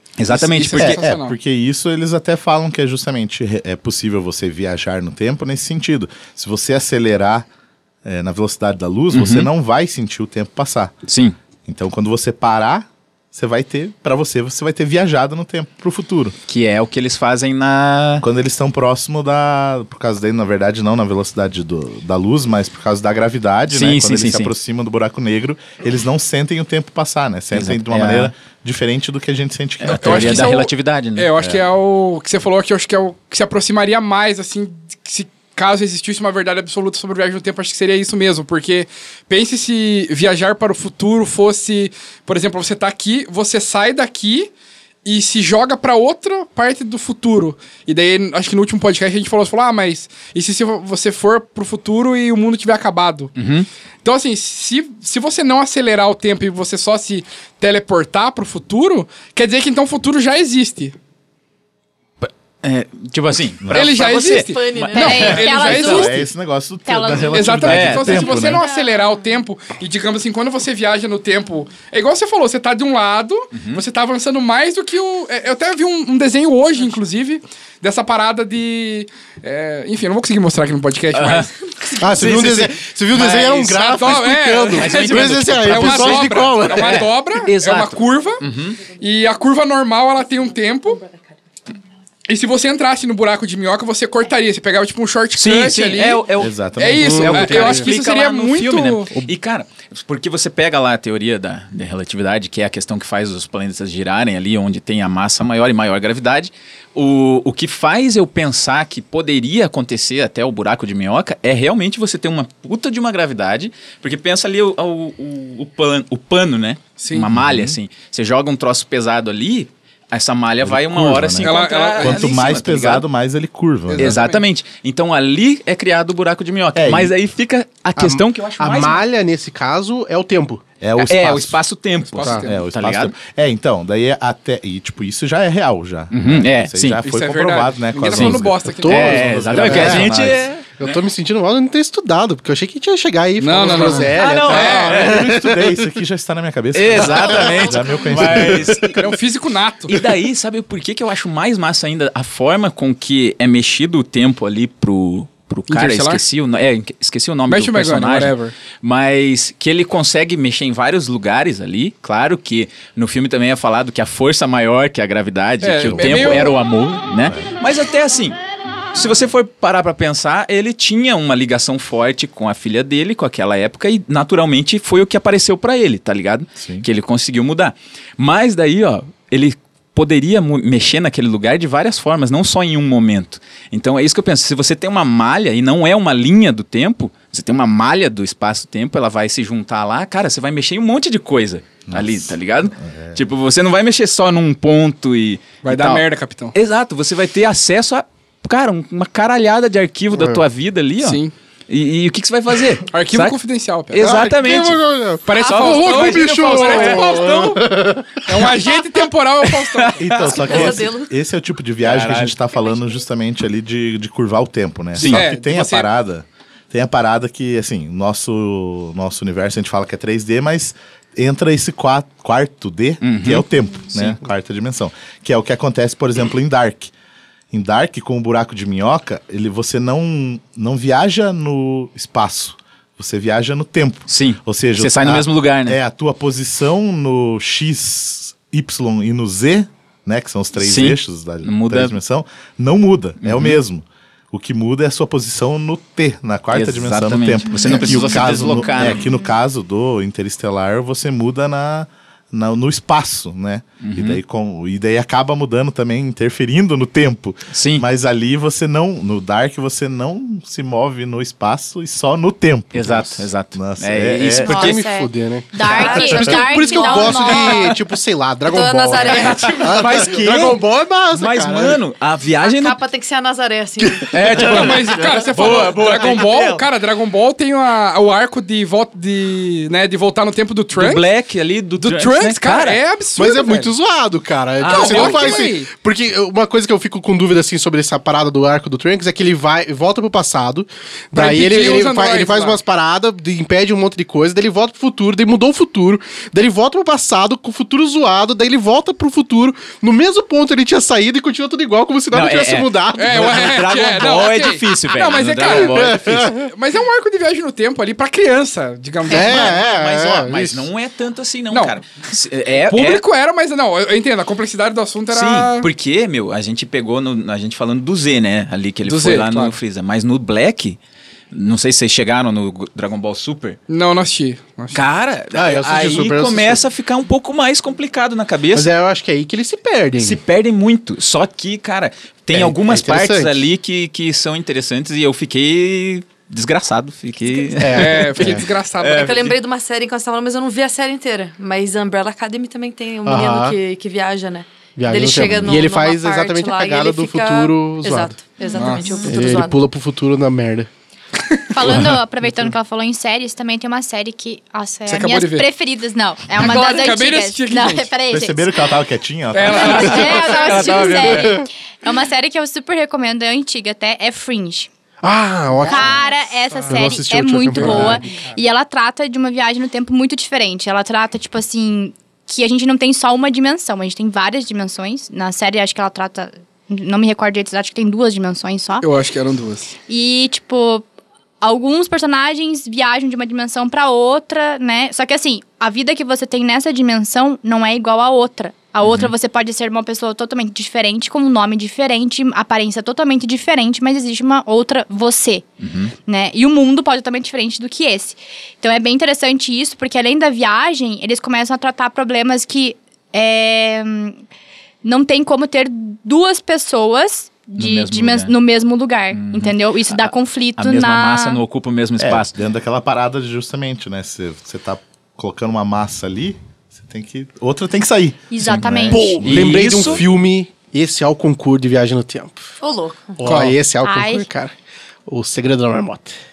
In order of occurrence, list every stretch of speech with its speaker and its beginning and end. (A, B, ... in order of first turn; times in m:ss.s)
0:00.2-0:01.0 A
0:00.3-0:01.3 B
0:00.8-0:07.5 C
0:08.0-0:10.9 C
0:09.1-0:09.5 A
0:11.1-0:11.3 A
0:11.6-0:16.3 C
0:16.5-0:18.2 A
0:18.2-0:30.5 C
0:23.7-0:24.5 A
0:27.5-0:28.3 A
0:29.8-0:31.3 A
0:29.8-0:44.5 B
0:31.4-0:31.6 C
0:45.0-0:53.3 B
0:53.4-0:53.7 A
0:54.0-1:00.9 B
1:02.2-1:05.7 A
1:03.6-1:03.9 C
1:03.7-1:06.2 B
1:04.2-1:05.6 D
1:04.9-1:06.2 E
1:05.6-1:08.6 C
1:06.8-1:07.4 E
1:07.2-1:21.5 B
1:07.6-1:08.3 A
1:08.1-1:09.4 D
1:13.5-1:13.8 A
1:21.1-1:23.6 A
1:22.0-1:27.1 F
1:23.1-1:31.0 B
1:24.8-1:28.8 A
1:32.2-1:36.2 B
1:35.3-2:03.0 A
1:36.4-1:37.5 C
1:36.8-1:39.1 B
1:37.0-1:37.9 F
1:57.0-1:57.3 B
1:57.4-1:57.8 C
2:00.6-2:04.2 C
2:01.4-2:02.3 B
2:03.9-2:04.4 B
2:03.9-2:09.0 A
2:06.7-2:07.1 C
2:08.0-2:10.6 F
2:10.8-2:11.6 C
2:11.0-2:13.1 A
2:12.2-2:12.5 B
2:12.4-2:20.5 C
2:16.1-2:17.0 A
2:17.0-2:19.2 B
2:18.2-2:21.0 A
2:18.8-2:25.8 F
2:23.4-2:25.0 B
2:23.8-2:25.3 A
2:24.5-2:29.0 C
2:26.7-2:29.0 A
2:27.6-2:28.2 D
2:28.8-2:30.0 B
2:29.9-2:48.4 A
2:35.7-2:36.2 B
2:37.5-2:38.5 B
2:45.6-2:46.6 B
2:45.9-2:46.4 C
2:47.2-2:47.5 C
2:48.9-3:23.4 A
2:56.6-2:56.8 C
3:11.9-3:13.2 C
3:15.6-3:16.5 B
3:20.2-3:20.4 F
3:21.0-3:21.3 B
3:22.9-3:24.0 B
3:23.9-3:27.6 A
3:24.0-3:28.7 F
3:25.2-3:27.6 B
3:28.2-3:30.0 B
3:29.5-3:30.8 A
3:30.0-3:46.9 C
3:30.4-3:31.1 D
3:31.8-3:32.4 A
3:35.0-3:35.2 A
3:35.0-3:35.9 B
3:43.0-3:43.4 A
3:47.5-4:24.7 C
3:54.1-3:55.8 A
4:00.6-4:02.0 A
4:03.2-4:03.6 A
4:06.5-4:09.1 A
4:07.9-4:09.0 E
4:13.8-4:14.2 A
4:17.5-4:17.8 A
4:22.7-4:24.8 A
4:24.5-4:27.7 E
4:24.5-4:31.8 F
4:25.6-4:27.7 D
4:28.5-4:29.7 D
4:29.1-4:29.8 B
4:29.7-4:32.8 A
4:32.4-4:34.1 D
4:34.0-4:34.3 F
4:34.1-4:36.7 A
4:34.4-4:41.0 B
4:40.7-4:42.8 A
4:41.8-4:43.7 B
4:43.2-5:03.6 F
4:44.6-4:45.5 A
4:44.6-4:45.7 B
4:51.1-4:52.6 B
5:02.1-5:06.4 A
5:02.9-5:09.6 B
5:05.4-5:06.4 F
5:09.1-5:10.7 F
5:09.1-5:13.0 A
5:11.5-5:11.8 B
5:12.7-5:15.7 B
5:15.1-5:20.8 A
5:18.8-5:19.6 B
5:21.3-5:23.6 A
5:23.7-5:24.8 B
5:24.7-5:28.7 A
5:25.3-5:26.6 F
5:28.5-5:30.2 F
5:30.0-5:39.4 A
5:32.3-5:33.4 F
5:37.6-5:38.4 F
5:37.7-5:39.2 B
5:38.9-5:49.7 D
5:43.0-5:43.6 F
5:44.8-5:48.1 F
5:48.4-5:49.0 E
5:48.6-5:48.9 B
5:48.7-5:50.7 F
5:51.5-5:58.5 E
5:51.6-5:51.9 A
5:54.9-5:55.5 B
5:56.4-5:57.9 B
5:56.4-5:57.0 D
5:58.1-6:00.3 C
5:59.3-6:00.9 B
5:59.5-6:04.7 E
5:59.5-6:01.4 A
6:05.0-6:08.3 F
6:05.6-6:18.9 E
6:18.8-6:19.7 B
6:19.9-6:20.8 E
6:21.4-6:35.4 E
6:28.8-6:29.1 A
6:35.6-6:35.9 A
6:36.1-6:44.2 E
6:44.8-6:51.4 E
6:47.6-6:48.3 A
6:49.1-6:52.3 A
6:52.0-7:00.0 C
6:58.3-6:59.1 E
6:58.9-7:02.5 F
6:59.2-7:00.0 A
7:02.6-7:03.4 D
7:03.2-7:04.5 F
7:03.8-7:04.3 E
7:05.1-7:06.1 F